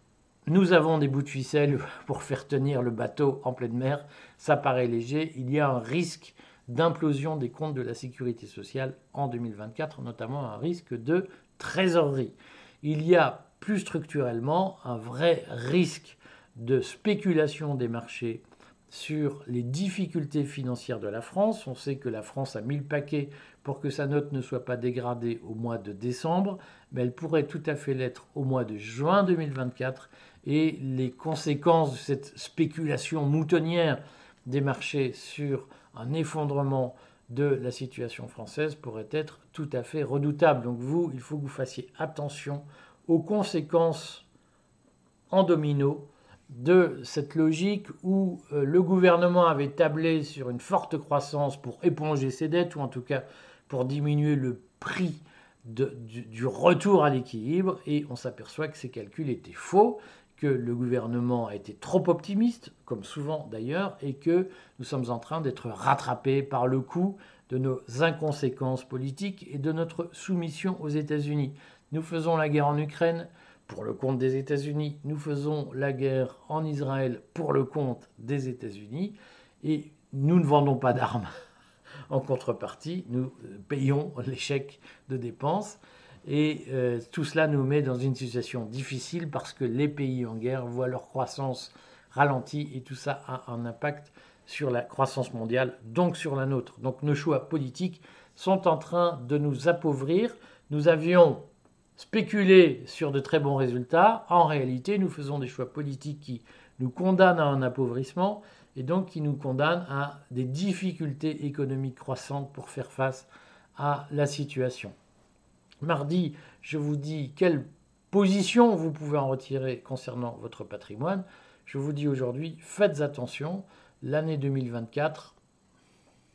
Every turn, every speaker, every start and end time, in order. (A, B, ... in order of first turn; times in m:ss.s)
0:00.5-0:44.3 A
0:45.3-1:21.3 A
1:22.1-1:41.4 A
1:42.0-1:55.0 A
1:55.8-2:05.4 A